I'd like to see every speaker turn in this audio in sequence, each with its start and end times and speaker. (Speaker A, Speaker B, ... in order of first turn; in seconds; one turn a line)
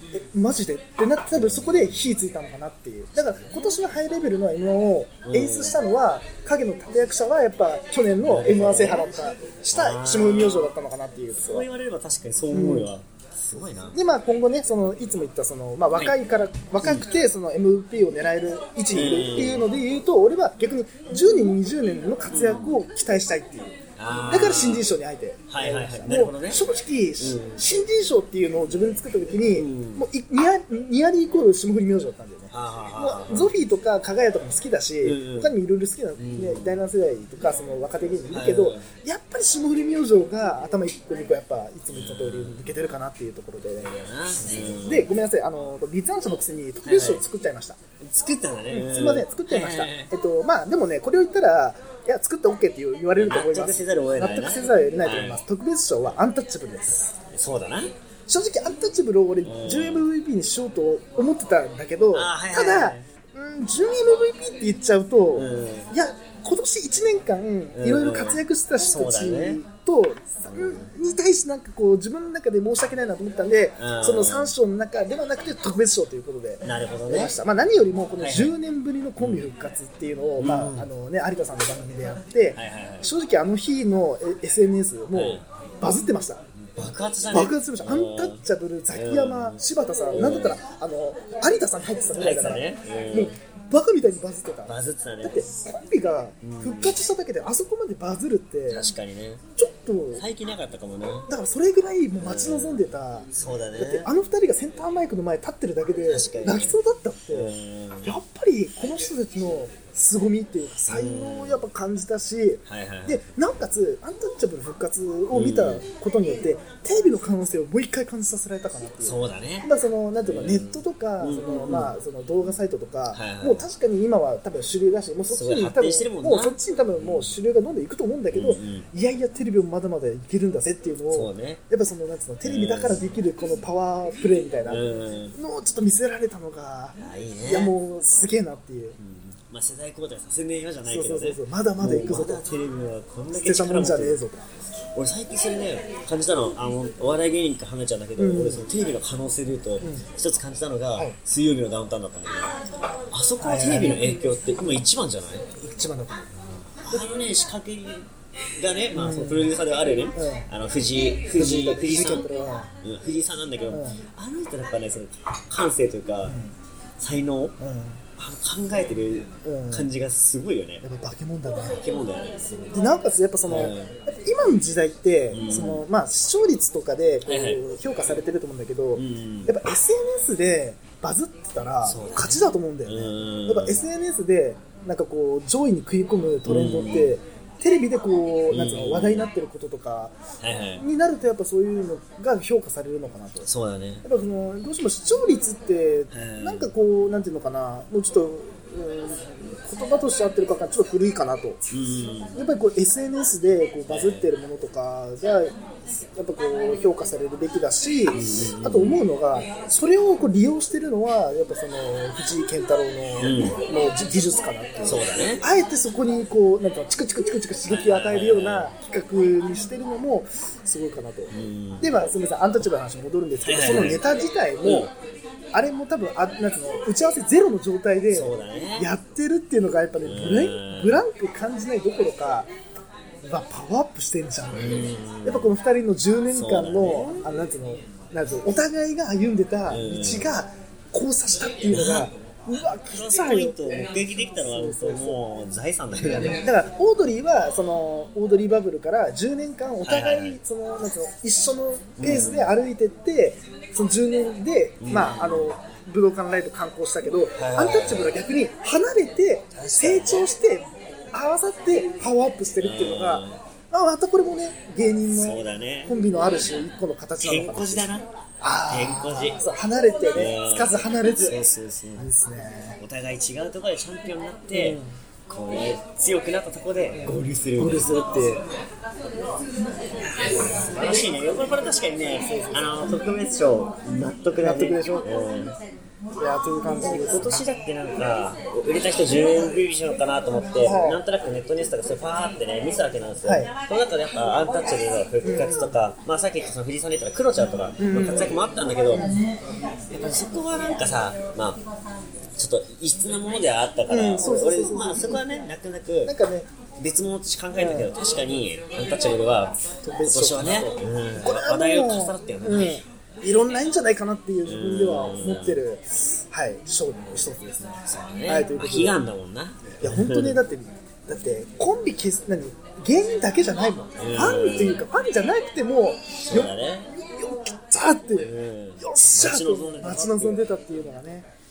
Speaker A: 0.1-11.7
Speaker B: 1.4-2.0
Speaker B: 5.2-5.8
Speaker B: 8.2-9.1
Speaker B: 9.7-10.7
Speaker B: 11.4-14.0
Speaker A: 12.5-12.9
Speaker A: 13.9-23.8
Speaker B: 16.8-17.1
Speaker B: 18.9-19.6
Speaker B: 22.3-22.7
Speaker B: 24.0-24.9
Speaker A: 24.3-47.8
Speaker B: 25.5-26.6
Speaker B: 27.2-27.6
Speaker B: 29.5-30.1
Speaker B: 32.5-33.5
Speaker B: 35.0-35.5
Speaker B: 36.1-36.8
Speaker B: 38.3-38.9
Speaker B: 41.9-42.6
Speaker B: 43.8-45.1
Speaker B: 46.9-47.2
Speaker B: 48.0-50.1
Speaker A: 48.7-57.1
Speaker B: 53.1-55.4
Speaker B: 57.3-57.9
Speaker A: 58.3-86.4
Speaker B: 59.4-60.1
Speaker B: 62.1-63.1
Speaker B: 65.3-65.9
Speaker B: 67.8-68.4
Speaker B: 68.9-69.6
Speaker B: 70.4-70.9
Speaker B: 73.8-74.5
Speaker B: 76.6-77.3
Speaker B: 78.2-78.5
Speaker B: 79.2-79.5
Speaker B: 80.4-80.9
Speaker B: 82.5-83.1
Speaker B: 85.1-85.5
Speaker B: 86.6-89.6
Speaker A: 87.3-98.9
Speaker B: 90.1-90.6
Speaker B: 92.1-93.3
Speaker B: 94.7-95.5
Speaker B: 96.4-97.0
Speaker B: 98.7-99.4
Speaker A: 99.6-100.2
Speaker B: 100.2-101.3
Speaker A: 101.3-107.5
Speaker B: 102.2-102.8
Speaker B: 103.3-104.1
Speaker B: 106.1-106.8
Speaker B: 107.3-108.1
Speaker A: 108.0-134.8
Speaker B: 110.9-111.6
Speaker B: 112.7-113.2
Speaker B: 115.3-115.8
Speaker B: 119.0-119.7
Speaker B: 120.2-121.9
Speaker B: 123.1-123.6
Speaker B: 125.3-127.3
Speaker B: 128.3-128.9
Speaker B: 131.1-131.6
Speaker B: 132.4-133.2
Speaker B: 134.7-135.3
Speaker A: 135.3-139.0
Speaker B: 137.0-137.7
Speaker B: 139.0-144.2
Speaker A: 140.8-142.4
Speaker A: 143.3-144.4
Speaker B: 144.9-152.5
Speaker A: 148.2-148.7
Speaker A: 149.8-150.1
Speaker B: 153.1-155.5
Speaker A: 153.4-154.7
Speaker A: 155.6-156.3
Speaker B: 156.8-162.2
Speaker A: 158.9-159.5
Speaker A: 160.1-160.5
Speaker A: 161.3-162.7
Speaker B: 162.8-166.4
Speaker A: 163.7-164.0
Speaker A: 166.2-166.5
Speaker B: 167.0-167.6
Speaker A: 167.6-168.0
Speaker B: 168.2-170.8
Speaker A: 169.4-169.9
Speaker A: 170.8-171.8
Speaker B: 171.7-172.8
Speaker A: 172.7-190.2
Speaker B: 173.5-173.9
Speaker B: 175.3-175.8
Speaker B: 177.2-177.6
Speaker B: 178.9-179.5
Speaker B: 181.8-183.8
Speaker B: 186.4-187.2
Speaker B: 188.5-189.3
Speaker B: 190.4-190.8
Speaker A: 190.8-193.4
Speaker B: 193.4-194.0
Speaker A: 194.0-201.6
Speaker B: 196.1-196.7
Speaker B: 201.7-202.4
Speaker A: 202.3-224.9
Speaker B: 203.9-204.3
Speaker B: 208.1-209.0
Speaker B: 213.2-213.6
Speaker B: 214.8-215.4
Speaker B: 217.7-218.7
Speaker B: 221.3-222.0
Speaker B: 223.4-224.0
Speaker B: 224.6-224.9
Speaker A: 225.5-232.5
Speaker B: 228.1-228.9
Speaker B: 230.0-231.0
Speaker A: 233.2-245.2
Speaker B: 234.5-235.5
Speaker B: 236.3-237.2
Speaker B: 239.7-240.3
Speaker B: 241.7-242.1
Speaker B: 242.9-246.4
Speaker A: 246.1-267.9
Speaker B: 249.8-250.4
Speaker B: 252.0-252.5
Speaker B: 254.8-255.5
Speaker B: 257.4-258.1
Speaker B: 259.5-260.3
Speaker B: 262.6-263.4
Speaker B: 265.1-265.9
Speaker B: 267.2-268.1
Speaker A: 268.4-271.4
Speaker B: 268.7-269.4
Speaker B: 270.1-272.1
Speaker A: 272.0-272.8
Speaker B: 272.8-278.0
Speaker A: 274.5-274.9
Speaker A: 276.9-278.4
Speaker B: 280.0-285.5
Speaker A: 282.2-283.0
Speaker A: 284.4-285.1
Speaker A: 286.2-287.4
Speaker B: 286.8-299.1
Speaker A: 290.6-291.0
Speaker A: 293.2-293.5
Speaker A: 295.2-295.8
Speaker A: 297.8-298.3
Speaker A: 298.9-299.2
Speaker B: 299.9-301.6
Speaker B: 302.4-306.1
Speaker A: 303.9-305.2
Speaker A: 306.1-306.5
Speaker B: 306.8-312.8
Speaker A: 307.6-307.9
Speaker A: 309.8-319.0
Speaker B: 314.4-315.6
Speaker B: 317.9-320.4
Speaker A: 319.8-331.3
Speaker B: 324.0-324.8
Speaker B: 326.2-326.9
Speaker B: 328.2-330.4